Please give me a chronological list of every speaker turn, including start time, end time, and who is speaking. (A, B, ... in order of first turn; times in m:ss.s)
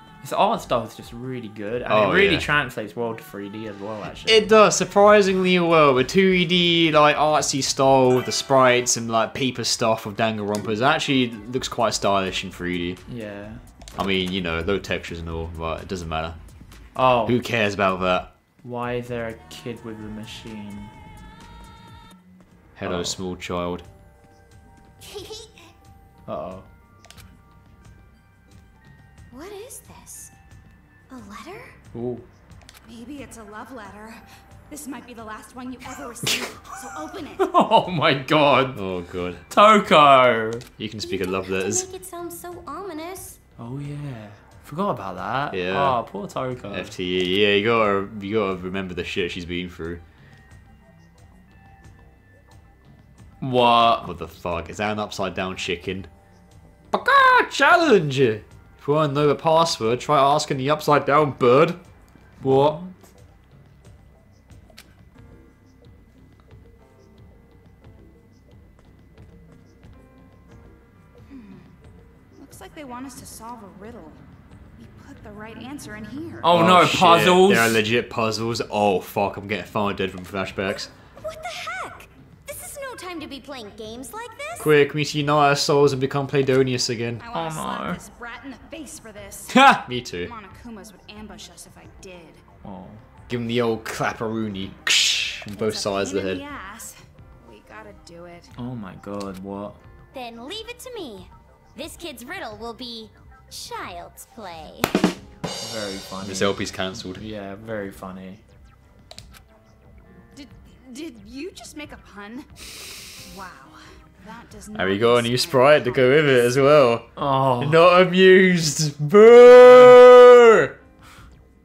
0:00.2-0:04.5 A
0:01.9-0:02.5 B
0:04.3-0:13.0 B
0:13.1-0:13.6 A
0:14.0-0:16.4 B
0:17.0-0:17.4 A
0:17.2-0:18.3 B
0:18.6-0:20.9 A
0:22.8-0:23.8 B
0:22.8-0:23.2 A
0:25.0-0:25.7 C
0:26.3-0:26.7 A
0:29.3-0:30.3 C
0:31.1-0:31.8 C
0:31.9-0:32.3 A
0:32.8-0:37.5 D
0:36.2-0:36.6 B
0:37.4-0:38.8 A
0:38.8-0:39.4 B
0:39.5-0:40.7 A
0:40.8-0:41.8 B
0:41.0-0:43.4 C
0:43.6-0:46.9 A
0:45.5-0:46.0 B
0:46.7-0:50.0 B
0:53.4-0:54.1 A
0:54.0-0:56.1 B
0:56.9-1:01.8 B
1:02.4-1:02.8 B
1:02.4-1:03.0 A
1:11.3-1:11.7 D
1:12.4-1:14.2 D
1:14.8-1:16.5 D
1:16.4-1:17.8 A
1:16.5-1:20.9 B
1:21.2-1:24.7 C
1:24.6-1:27.2 B
1:27.2-1:29.6 D
1:27.3-1:28.0 A
1:29.5-1:30.3 B
1:30.2-1:32.4 D
1:32.6-1:33.0 A
1:33.3-1:36.4 B
1:35.5-1:38.5 D
1:38.6-1:39.8 A
1:40.1-1:45.1 C
1:45.6-1:48.4 A
1:46.2-1:47.2 B
1:50.3-1:52.5 D
1:53.1-1:56.7 D
1:54.8-2:00.8 B
1:57.2-1:57.8 A